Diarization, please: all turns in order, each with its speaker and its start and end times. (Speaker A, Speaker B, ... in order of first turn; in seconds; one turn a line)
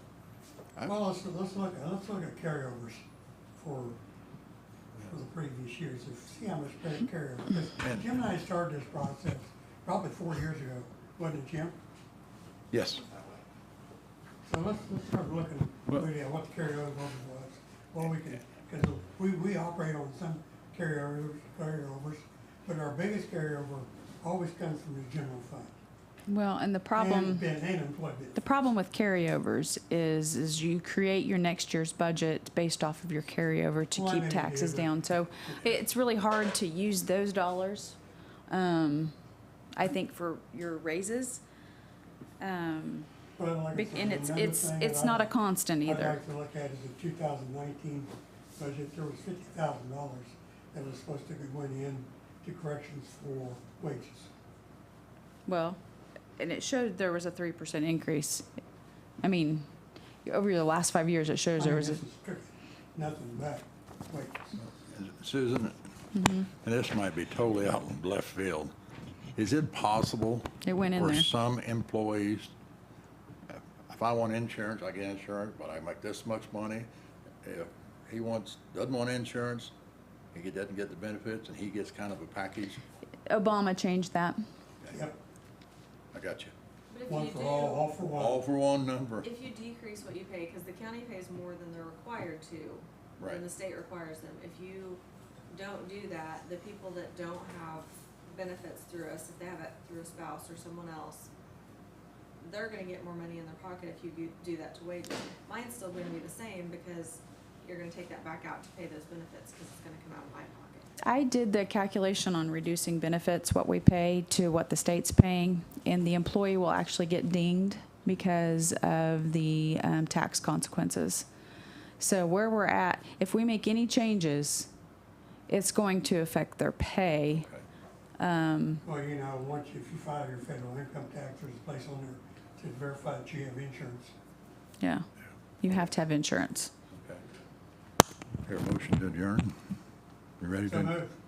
Speaker A: 0.8-4.0
Speaker A: 5.0-11.8
Speaker B: 12.7-13.1
Speaker A: 14.4-25.8
Speaker C: 26.3-27.5
Speaker A: 26.9-28.4
Speaker C: 28.4-38.0
Speaker A: 33.9-35.8
Speaker C: 38.5-39.1
Speaker C: 39.7-41.4
Speaker C: 42.4-43.1
Speaker A: 43.4-54.3
Speaker C: 43.7-46.2
Speaker C: 55.5-55.8
Speaker C: 56.4-58.5
Speaker C: 59.2-59.7
Speaker C: 60.2-62.0
Speaker A: 61.6-64.6
Speaker B: 64.6-65.8
Speaker C: 66.1-66.5
Speaker B: 66.5-68.7
Speaker B: 69.3-72.5
Speaker C: 70.6-71.3
Speaker B: 73.5-76.9
Speaker B: 77.4-79.7
Speaker B: 80.3-82.8
Speaker C: 83.3-84.4
Speaker A: 84.9-85.2
Speaker B: 86.1-86.5
Speaker D: 86.9-88.0
Speaker A: 87.1-88.4
Speaker B: 88.2-89.3
Speaker D: 89.2-101.3
Speaker B: 93.2-93.4
Speaker D: 102.4-110.9
Speaker C: 111.0-121.3
Speaker C: 122.0-124.7
Speaker C: 125.5-127.5
Speaker B: 127.3-127.6
Speaker C: 128.2-128.8
Speaker A: 128.8-134.1
Speaker C: 134.8-135.1
Speaker C: 135.6-136.7
Speaker B: 136.9-137.2
Speaker B: 138.4-139.5
Speaker B: 140.4-141.0
Speaker A: 140.7-141.2